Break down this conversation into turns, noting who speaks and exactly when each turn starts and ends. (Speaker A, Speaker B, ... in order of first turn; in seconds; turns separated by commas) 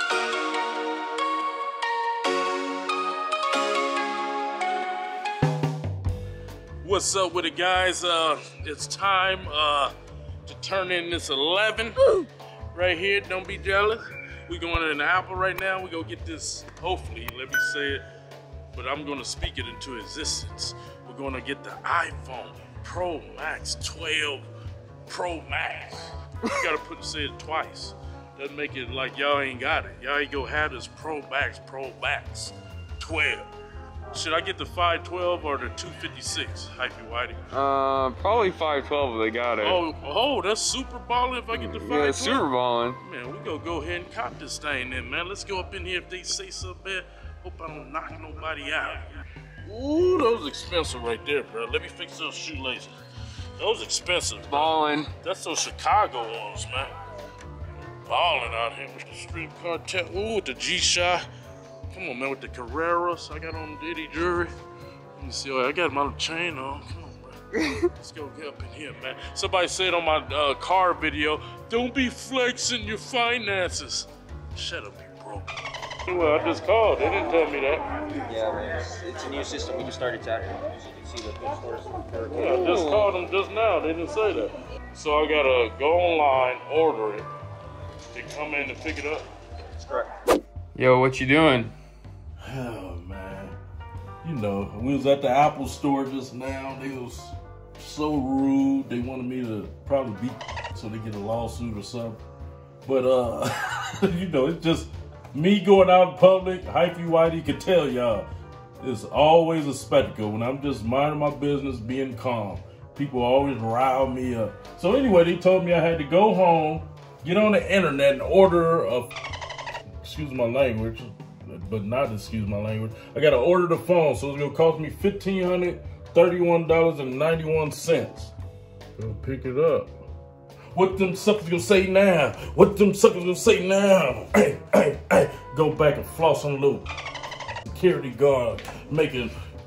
Speaker A: 6.8-9.9, Speaker A: 10.4-12.2, Speaker A: 12.7-18.0, Speaker A: 18.7-24.4, Speaker A: 25.1-33.5, Speaker A: 34.1-37.5, Speaker B: 37.5-39.8, Speaker A: 39.6-49.0, Speaker B: 41.5-43.0, Speaker A: 49.6-52.9, Speaker A: 53.6-56.9, Speaker B: 54.5-55.1, Speaker A: 58.0-61.2, Speaker A: 61.9-64.5, Speaker A: 65.2-75.5, Speaker A: 76.1-77.8, Speaker C: 78.4-81.9, Speaker A: 82.3-87.3, Speaker B: 82.3-83.1, Speaker A: 88.1-89.3, Speaker B: 90.7-91.7, Speaker A: 92.4-93.6, Speaker A: 94.2-102.2, Speaker A: 102.8-108.3, Speaker A: 108.8-119.1, Speaker A: 120.0-128.3, Speaker A: 129.0-129.9, Speaker A: 130.7-136.8, Speaker A: 137.7-139.3